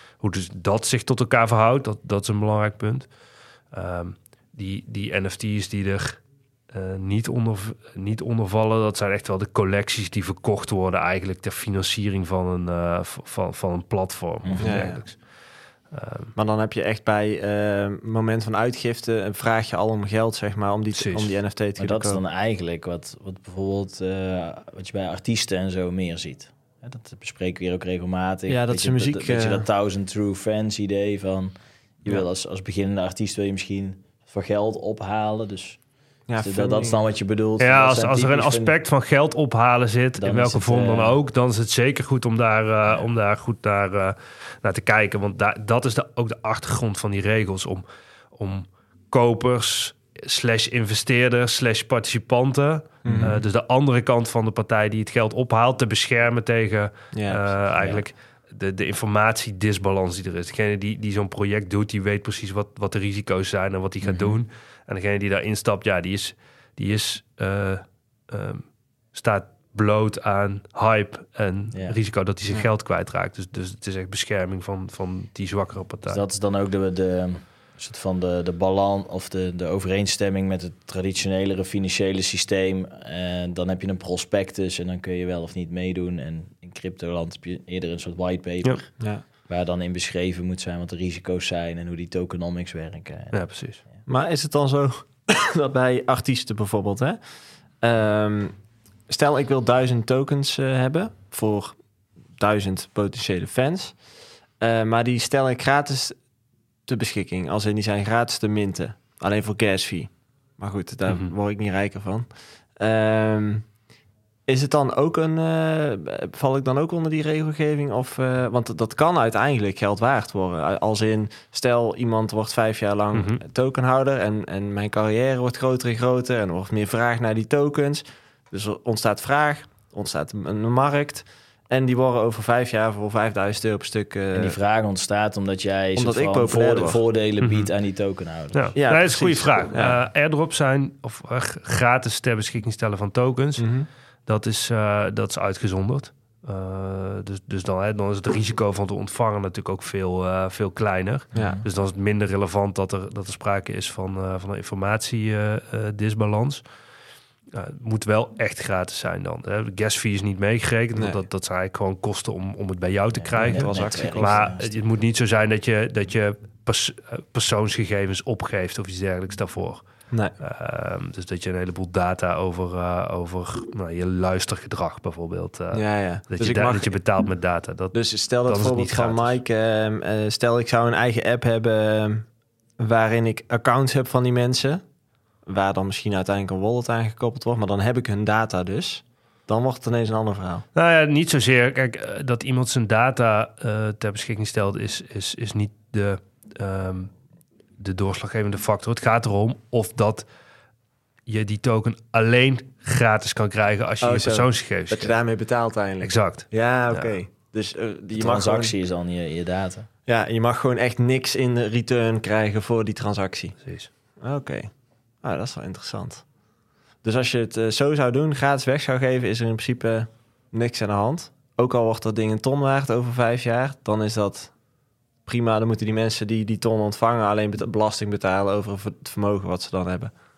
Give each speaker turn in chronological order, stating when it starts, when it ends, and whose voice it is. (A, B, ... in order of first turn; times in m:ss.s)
0:00.2-0:03.1 A
0:03.7-0:15.2 A
0:14.4-0:14.9 B
0:14.6-0:15.0 C
0:15.9-0:16.3 A
0:16.3-0:22.2 C
0:20.9-0:21.4 A
0:21.8-0:35.8 B
0:28.5-0:29.6 C
0:36.3-0:37.0 C
0:36.4-0:38.7 B
0:37.6-1:16.2 A
0:40.2-0:41.2 B
0:53.0-0:53.4 C
0:53.1-0:53.4 B
0:57.1-0:57.6 C
1:04.0-1:04.4 B
1:16.1-1:34.0 B
1:33.3-1:33.8 A
1:34.1-1:44.1 C
1:44.6-1:46.2 C
1:46.9-1:53.7 C
1:51.1-1:51.3 A
1:54.5-2:14.6 C
2:03.1-2:03.4 A
2:14.3-2:18.7 B
2:15.9-2:17.0 C
2:17.4-2:17.7 A
2:18.5-2:23.7 A
2:18.8-2:20.0 C
2:23.6-2:23.9 C
2:24.2-2:36.6 A
2:31.3-2:31.6 C
2:31.4-2:31.6 B
2:37.5-2:59.4 A
2:41.0-2:41.2 C
2:43.1-2:44.8 B
2:43.4-2:44.5 C
2:55.7-2:57.0 C
2:57.9-3:04.8 C
3:05.4-3:10.7 C
3:10.7-3:17.1 A
3:17.8-3:20.3 A
3:21.2-3:25.1 A
3:24.0-3:28.7 C
3:26.0-3:27.2 A
3:28.1-3:29.9 B
3:30.0-3:36.4 C
3:33.6-3:33.9 A
3:37.0-3:44.6 C
3:45.2-3:50.1 C